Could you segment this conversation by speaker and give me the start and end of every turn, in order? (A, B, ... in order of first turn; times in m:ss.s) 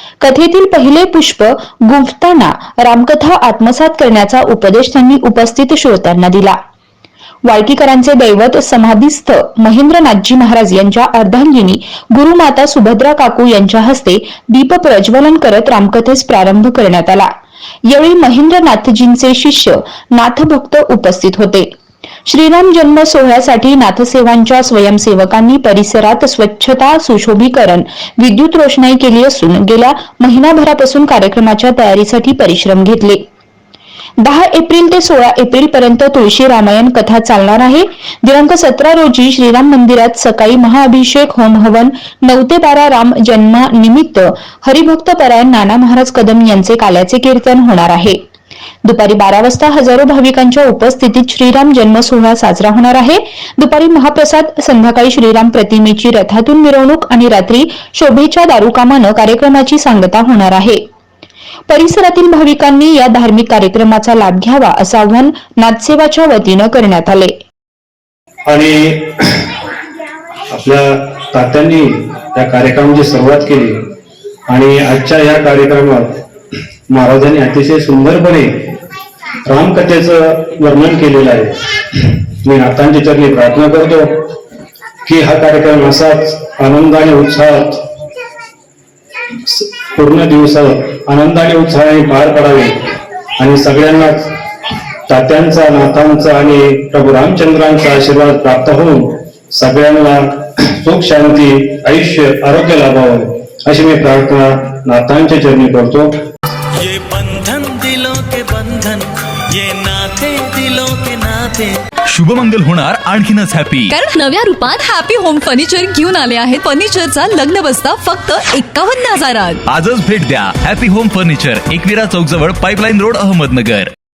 0:00.2-0:06.6 A
0:07.4-0:17.3 A
0:17.8-0:21.7 A
0:22.2-0:33.2 A
0:34.2-0:48.2 A
0:48.8-1:00.8 A
1:01.7-1:07.3 A
1:08.5-1:09.6 B
1:10.5-1:13.9 B
1:14.5-1:16.2 B
1:16.9-1:18.8 B
1:19.4-1:24.3 B
1:25.0-1:27.8 B
1:29.4-1:34.4 B
1:35.1-1:46.2 B
1:46.8-1:51.7 C
1:52.1-1:53.9 D
1:53.9-1:59.6 E
1:59.6-2:03.9 D